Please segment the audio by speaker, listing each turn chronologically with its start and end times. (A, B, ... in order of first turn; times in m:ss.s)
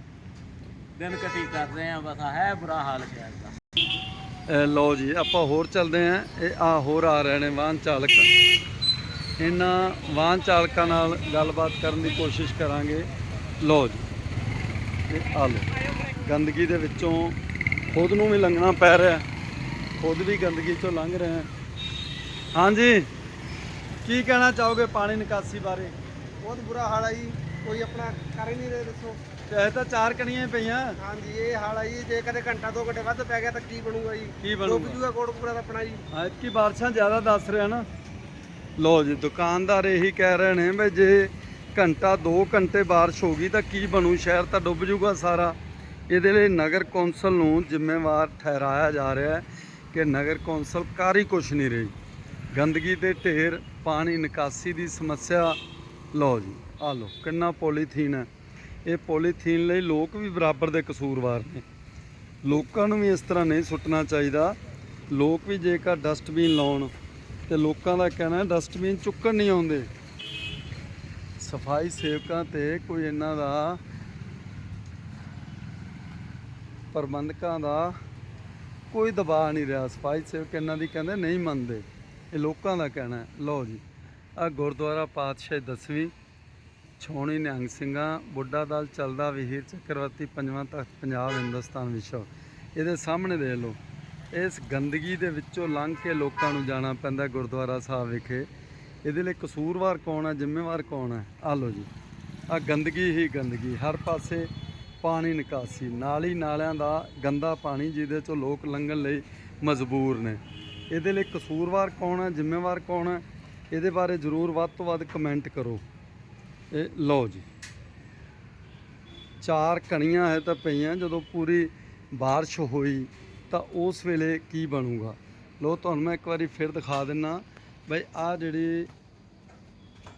0:01.0-0:03.5 A
0:04.5-0:08.3 B
0:09.4-0:13.1 B
0:13.6-0:14.0 B
0:15.1-0:15.7 B
0:16.2-0:17.4 B
0:17.9-0:19.2 B
0:20.0-0:21.5 B
0:22.5-0:23.1 B
0:24.0-0:25.9 B
0:26.4-0:29.2 C
0:29.5-0:31.0 B
0:31.0-0:36.0 C
0:34.4-0:35.0 B
0:36.1-0:37.8 B
0:38.8-0:45.6 B
0:46.1-0:51.9 B
0:52.5-0:55.6 B
0:56.1-0:58.3 B
0:58.8-1:01.6 B
1:02.4-1:04.6 B
1:05.1-1:06.9 B
1:07.5-1:09.9 B
1:11.4-1:13.8 B
1:16.9-1:18.0 B
1:18.9-1:23.8 B
1:24.4-1:26.1 B
1:27.0-1:33.8 B
1:34.3-1:38.5 B
1:39.0-1:41.9 B
1:42.5-1:44.5 B
1:45.0-1:50.4 B
1:50.9-1:55.8 B
1:56.7-1:57.5 B
1:59.4-2:08.9 B